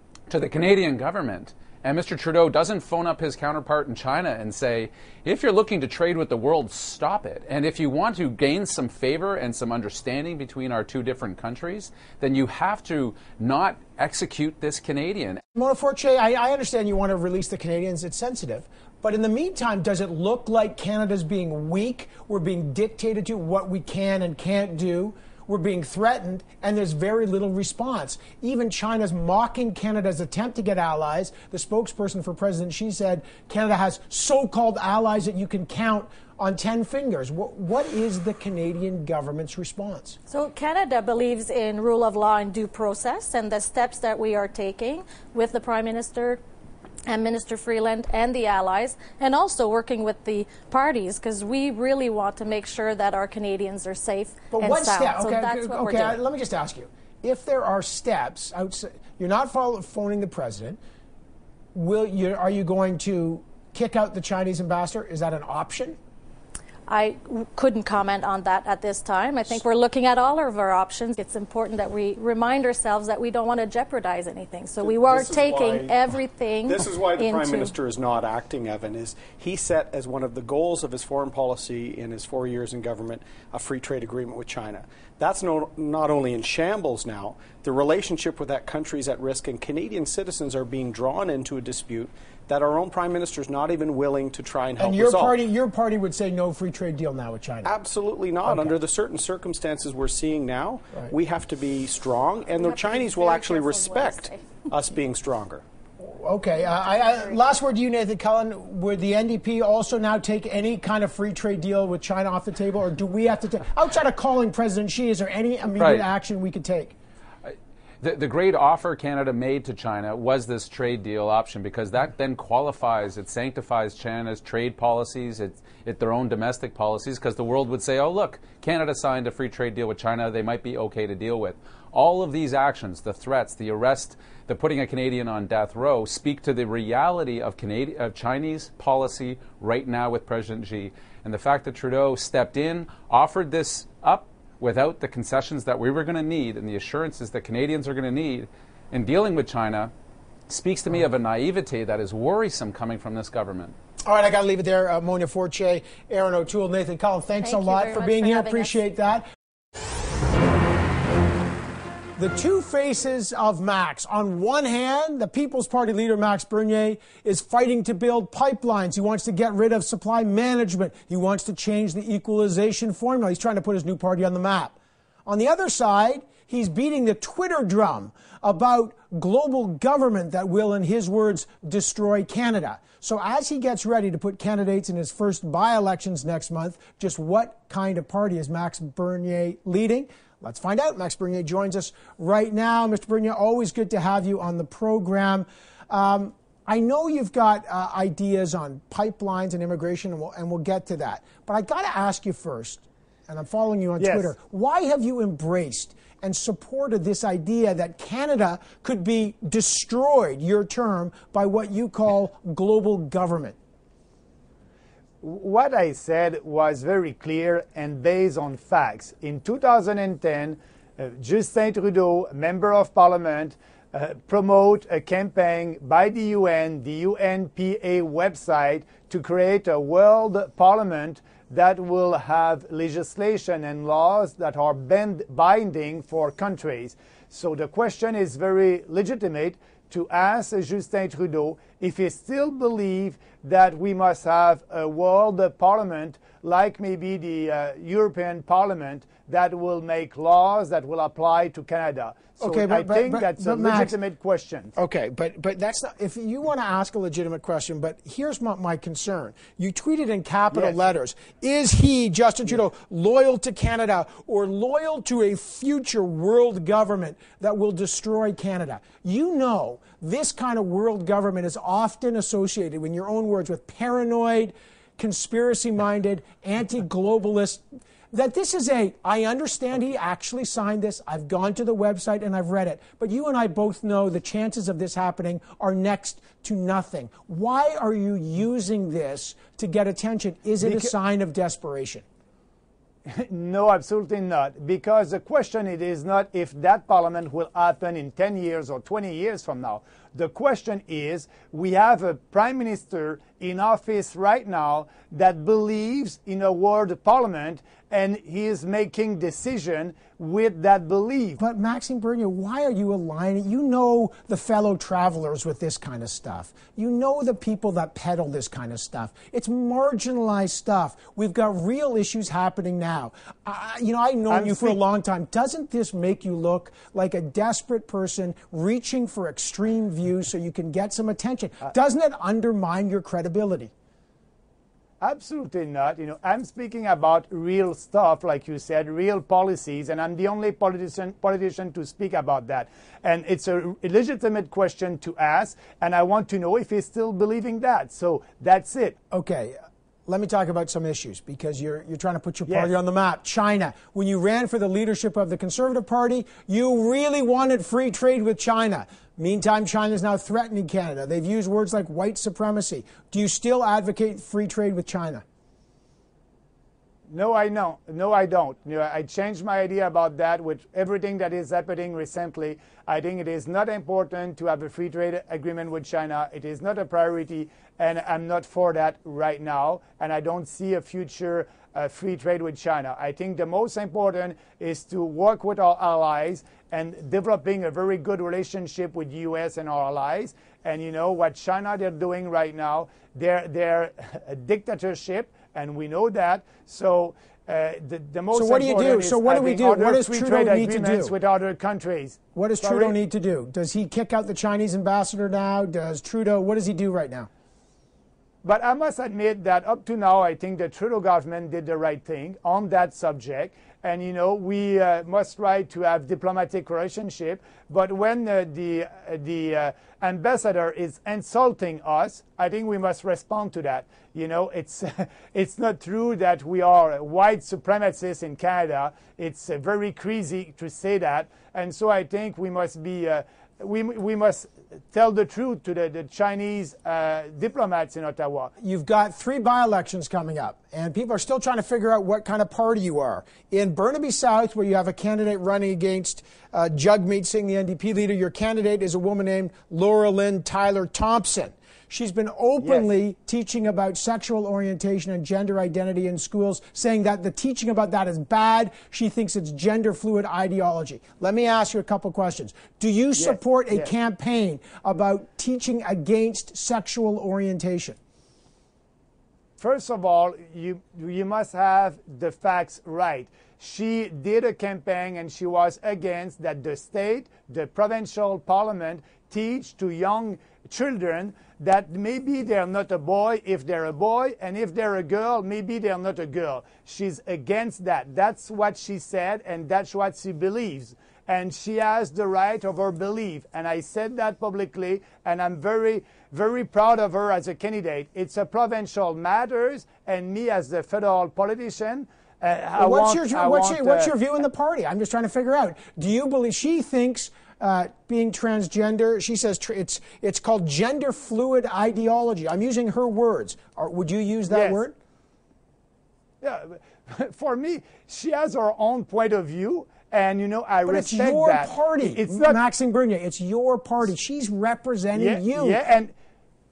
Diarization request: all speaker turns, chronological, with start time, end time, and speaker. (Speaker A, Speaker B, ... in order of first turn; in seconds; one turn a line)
Speaker A: 0.3-15.4
Speaker B: 15.6-40.2
Speaker C: 40.3-46.4
Speaker C: 47.1-56.2
Speaker B: 54.5-60.8
Speaker B: 61.7-66.0
Speaker C: 66.9-77.7
Speaker D: 74.8-76.0
Speaker D: 76.6-95.4
Speaker B: 94.8-97.7
Speaker D: 97.6-105.6
Speaker B: 98.5-98.8
Speaker C: 102.6-104.3
Speaker B: 106.0-116.9
Speaker A: 115.8-116.0
Speaker A: 117.5-149.9
Speaker A: 150.5-153.7
Speaker B: 154.1-159.2
Speaker C: 157.4-158.8
Speaker B: 162.2-213.6
Speaker E: 204.0-204.3
Speaker E: 215.2-254.7
Speaker B: 252.4-253.9
Speaker B: 254.7-292.0
Speaker E: 260.5-260.8
Speaker E: 290.6-290.9
Speaker E: 293.1-311.4
Speaker B: 311.4-333.7
Speaker E: 324.3-324.8
Speaker E: 335.0-349.0
Speaker B: 349.1-349.6
Speaker B: 350.1-365.2
Speaker E: 352.5-352.7
Speaker E: 367.1-402.9
Speaker B: 398.3-401.1
Speaker B: 402.3-407.3
Speaker E: 408.4-438.5
Speaker B: 438.6-468.0
Speaker E: 452.6-452.9
Speaker E: 463.2-463.9
Speaker E: 469.6-504.1
Speaker B: 502.8-515.0
Speaker E: 514.5-514.8
Speaker E: 516.4-522.6
Speaker B: 520.9-525.8
Speaker E: 525.1-526.1